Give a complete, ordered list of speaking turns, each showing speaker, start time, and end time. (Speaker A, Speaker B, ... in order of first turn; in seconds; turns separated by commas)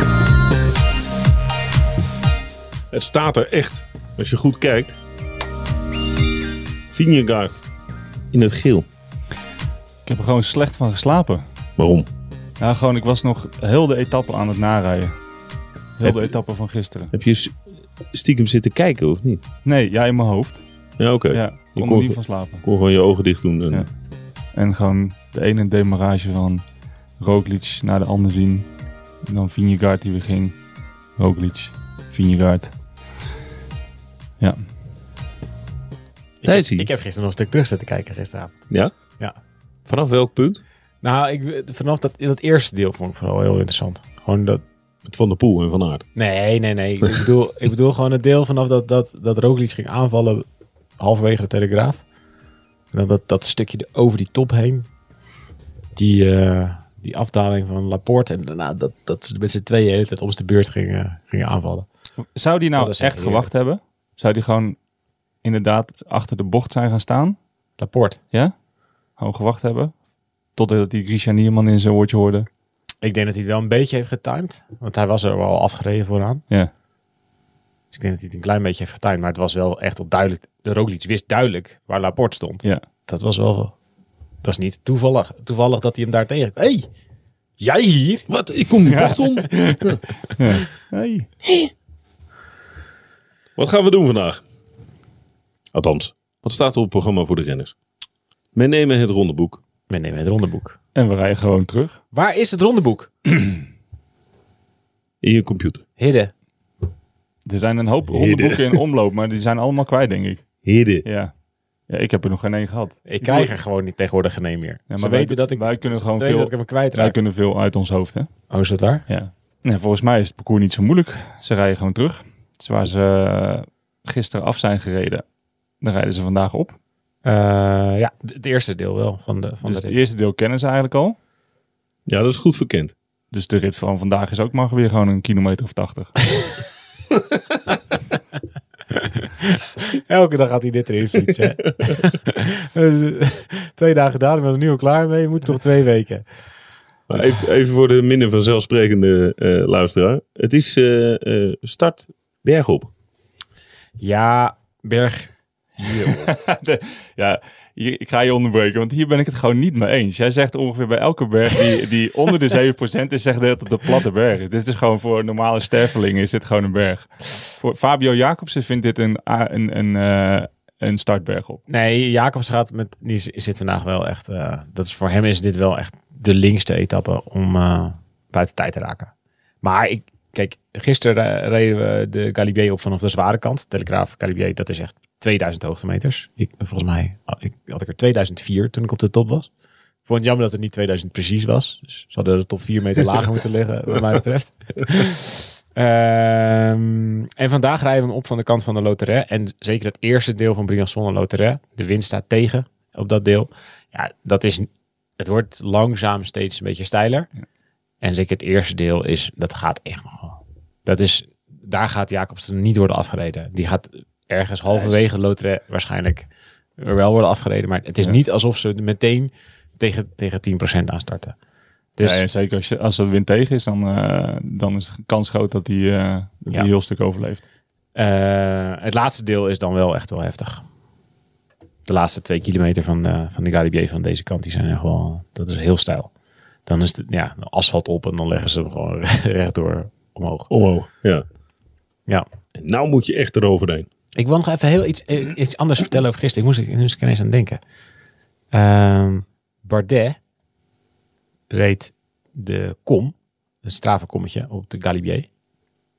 Speaker A: 2.9-5.0, Speaker A: 6.9-7.6, Speaker A: 8.3-8.9, Speaker B: 10.0-11.4, Speaker A: 11.8-12.1, Speaker B: 12.6-15.2, Speaker B: 16.0-17.1, Speaker A: 16.0-16.4, Speaker A: 17.1-19.4, Speaker B: 19.6-20.6, Speaker A: 21.0-23.9, Speaker B: 21.3-22.6, Speaker B: 24.5-26.6, Speaker B: 27.2-28.7, Speaker B: 29.2-30.6, Speaker B: 31.2-32.7, Speaker C: 36.4-38.6, Speaker A: 36.5-36.9, Speaker A: 39.9-40.6, Speaker C: 41.0-44.6, Speaker A: 45.0-46.0, Speaker C: 46.1-50.5, Speaker C: 51.0-52.0, Speaker C: 52.9-54.9, Speaker C: 55.9-61.9, Speaker B: 62.3-64.8, Speaker C: 62.8-63.5, Speaker B: 65.4-67.4, Speaker C: 67.8-68.2, Speaker B: 69.2-69.9, Speaker B: 70.5-72.5, Speaker C: 73.0-76.4, Speaker C: 77.9-83.8, Speaker C: 84.4-86.9, Speaker C: 87.6-88.3, Speaker A: 88.3-90.0, Speaker B: 88.9-91.3, Speaker A: 93.6-94.4, Speaker A: 95.7-97.7, Speaker A: 98.5-99.6, Speaker C: 99.9-100.8, Speaker B: 100.9-102.0, Speaker C: 102.1-103.1, Speaker A: 105.2-105.8, Speaker C: 106.0-106.3, Speaker B: 107.5-110.4, Speaker A: 108.1-108.8, Speaker A: 110.6-111.0, Speaker B: 111.0-111.3, Speaker B: 111.9-113.5, Speaker C: 113.0-117.2, Speaker B: 114.9-118.3, Speaker C: 118.5-119.0, Speaker B: 119.1-125.2, Speaker B: 125.8-126.8, Speaker C: 127.2-130.0, Speaker B: 129.6-131.2, Speaker A: 132.1-132.9, Speaker B: 133.3-136.2, Speaker C: 139.2-146.2, Speaker A: 147.1-152.9, Speaker C: 154.0-155.3, Speaker A: 155.8-156.2, Speaker B: 156.1-171.6, Speaker C: 171.7-179.1, Speaker C: 179.6-189.5, Speaker C: 190.0-207.3, Speaker C: 208.0-221.3, Speaker B: 214.7-215.0, Speaker C: 222.0-222.2, Speaker B: 222.0-227.4, Speaker C: 227.9-230.7, Speaker C: 231.8-236.1, Speaker C: 236.7-240.5, Speaker A: 240.5-241.2, Speaker A: 242.6-243.9, Speaker C: 244.2-247.6, Speaker C: 248.5-250.2, Speaker C: 251.5-255.3